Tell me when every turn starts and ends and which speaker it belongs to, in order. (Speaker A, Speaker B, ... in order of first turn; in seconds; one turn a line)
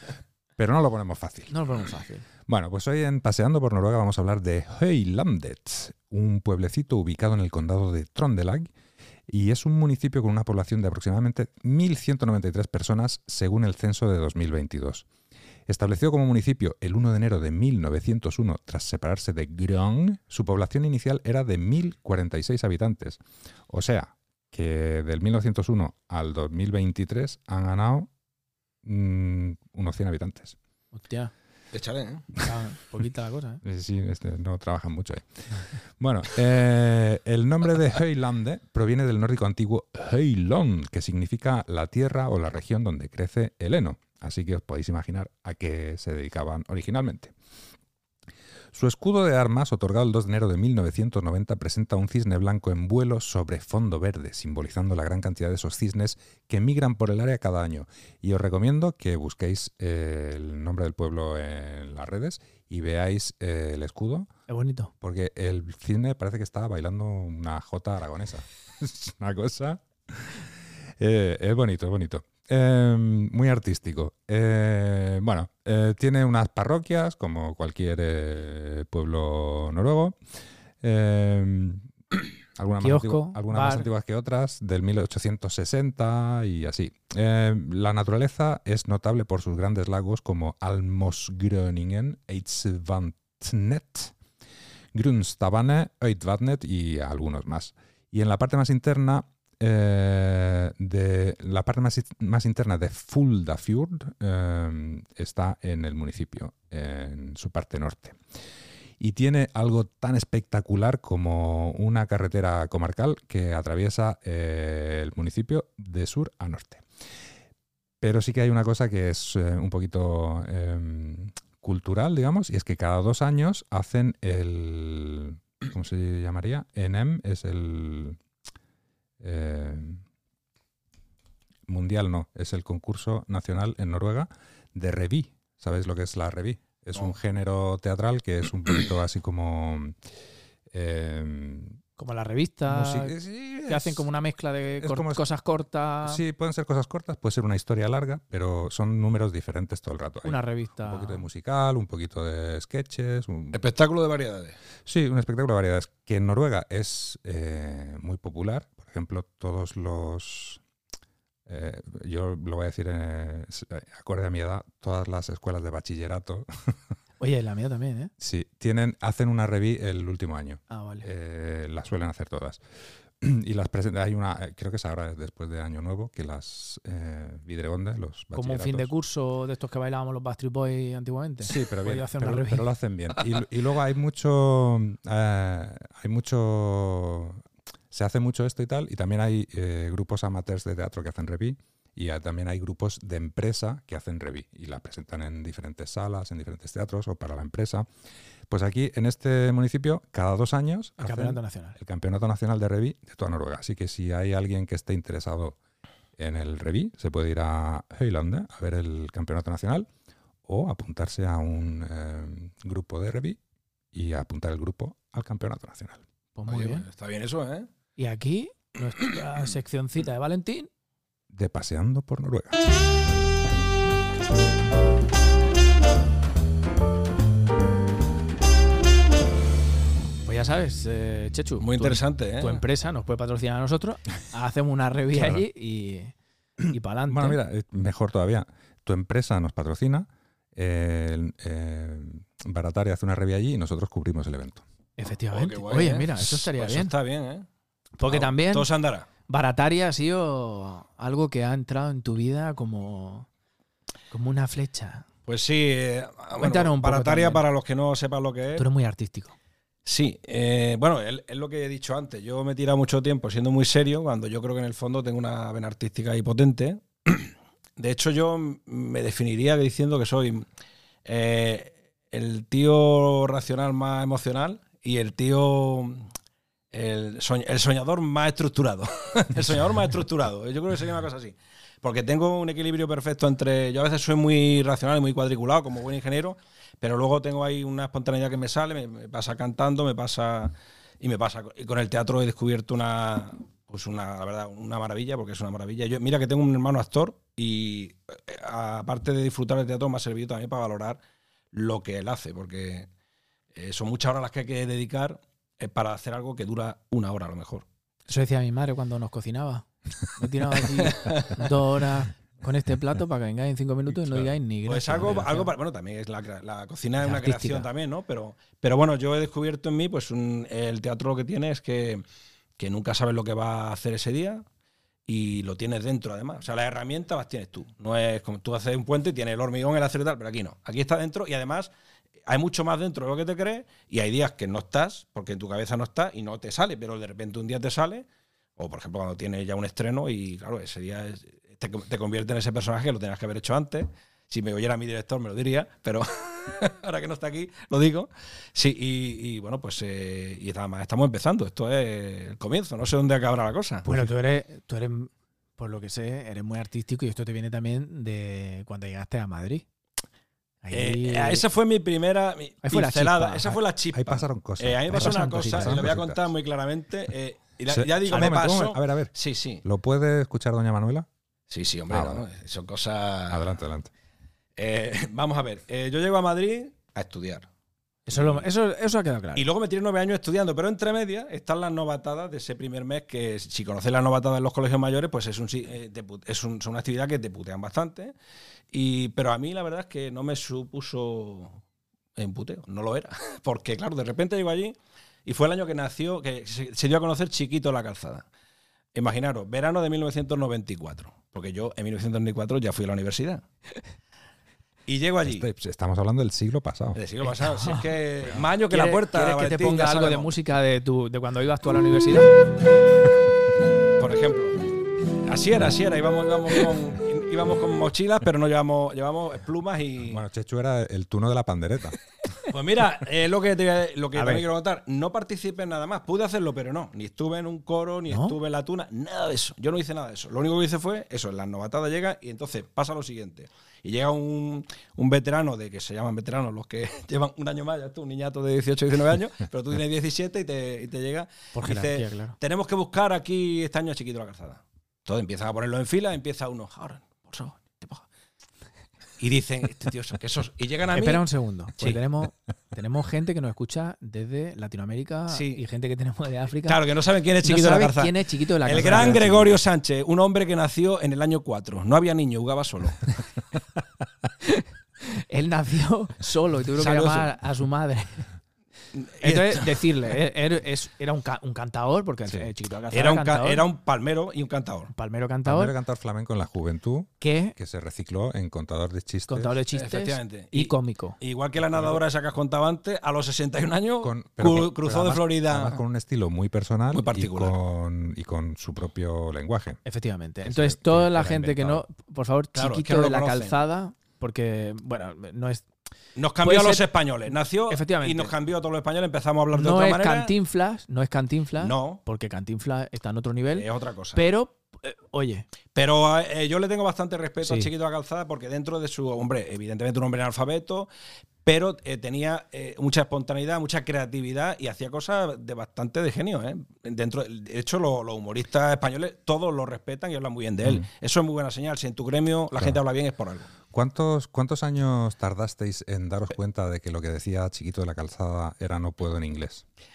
Speaker A: 0.6-1.5
Speaker B: 1.5-2.3
Speaker A: 2.5-8.7
Speaker A: 9.3-15.1
Speaker A: 15.7-28.1
Speaker A: 28.8-30.6
Speaker B: 30.9-31.3
Speaker C: 31.7-32.3
Speaker B: 32.4-33.6
Speaker A: 33.6-47.3
Speaker A: 48.7-64.3
Speaker B: 64.5-64.9
Speaker A: 65.0-70.4
Speaker A: 71.0-80.2
Speaker A: 80.8-81.9
Speaker A: 82.5-94.1
Speaker B: 82.8-83.9
Speaker A: 94.9-108.2
Speaker A: 109.0-116.8
Speaker A: 118.0-128.2
Speaker A: 129.2-130.0
Speaker A: 131.7-140.0
Speaker A: 140.7-141.8
Speaker B: 142.0-143.1
Speaker A: 142.7-144.1
Speaker B: 143.7-146.2
Speaker A: 144.8-145.2
Speaker A: 146.0-153.6
Speaker B: 150.2-151.2
Speaker C: 153.5-154.6
Speaker A: 154.8-160.6
Speaker A: 161.5-166.9
Speaker B: 167.2-168.1
Speaker A: 168.2-172.6
Speaker B: 170.7-171.1
Speaker A: 173.2-178.9
Speaker B: 178.3-182.7
Speaker A: 181.4-197.9
Speaker A: 198.5-205.6
Speaker B: 201.0-201.8
Speaker A: 206.2-209.9
Speaker A: 210.4-213.4
Speaker A: 213.9-216.0
Speaker B: 216.3-216.8
Speaker C: 216.5-217.7
Speaker B: 218.0-220.7
Speaker A: 221.3-222.6
Speaker B: 230.2-236.1
Speaker C: 231.6-232.6
Speaker A: 235.1-235.4
Speaker B: 236.7-237.4
Speaker A: 237.1-244.6
Speaker B: 245.0-246.9
Speaker C: 245.3-247.4
Speaker B: 248.0-248.7
Speaker C: 248.1-249.1
Speaker B: 249.3-253.3
Speaker B: 254.1-255.1
Speaker C: 255.2-258.6
Speaker B: 256.4-257.4
Speaker B: 258.6-259.3
Speaker C: 259.9-270.4
Speaker C: 271.0-276.1
Speaker C: 276.7-301.0
Speaker C: 301.5-302.9
Speaker C: 303.5-307.6
Speaker B: 308.1-315.5
Speaker C: 310.7-311.5
Speaker C: 314.6-322.0
Speaker B: 317.0-317.7
Speaker C: 322.6-324.4
Speaker C: 325.1-331.7
Speaker C: 332.3-338.1
Speaker C: 338.6-354.0
Speaker B: 353.8-359.6
Speaker B: 360.6-361.4
Speaker C: 360.7-369.6
Speaker B: 362.6-363.6
Speaker A: 363.9-366.3
Speaker B: 364.9-365.8
Speaker A: 367.7-369.1
Speaker A: 369.6-371.1
Speaker C: 371.5-373.4
Speaker A: 371.9-372.2
Speaker A: 373.3-373.9
Speaker C: 374.6-377.5
Speaker C: 378.1-378.4
Speaker B: 378.1-379.5
Speaker C: 379.4-388.1
Speaker C: 388.7-391.6
Speaker C: 392.2-398.2
Speaker C: 398.9-403.4
Speaker C: 404.9-405.4
Speaker A: 405.2-407.0
Speaker C: 406.9-410.3
Speaker B: 407.3-407.8
Speaker B: 408.7-412.3
Speaker C: 414.0-414.6
Speaker C: 415.2-420.2
Speaker A: 420.0-422.0
Speaker C: 422.5-448.0
Speaker B: 424.1-424.4
Speaker B: 428.1-428.4
Speaker B: 441.5-442.4
Speaker C: 449.2-451.2
Speaker B: 450.9-456.8
Speaker C: 455.3-455.6
Speaker C: 456.6-463.0
Speaker B: 457.4-459.5
Speaker B: 464.4-468.3
Speaker C: 466.8-467.3
Speaker C: 468.9-469.8
Speaker B: 469.2-473.6
Speaker C: 472.9-474.9
Speaker B: 474.9-475.7
Speaker A: 475.4-479.5
Speaker B: 477.2-477.6
Speaker B: 479.3-481.2
Speaker C: 479.7-485.8
Speaker A: 484.0-489.8
Speaker C: 486.9-487.6
Speaker B: 489.8-495.6
Speaker A: 490.4-491.8
Speaker C: 492.5-493.6
Speaker C: 496.1-500.3
Speaker B: 496.4-498.3
Speaker B: 499.5-505.5
Speaker C: 501.6-502.0
Speaker C: 503.5-504.2
Speaker C: 505.7-510.9
Speaker B: 507.4-507.7
Speaker C: 511.4-523.5
Speaker A: 523.7-529.6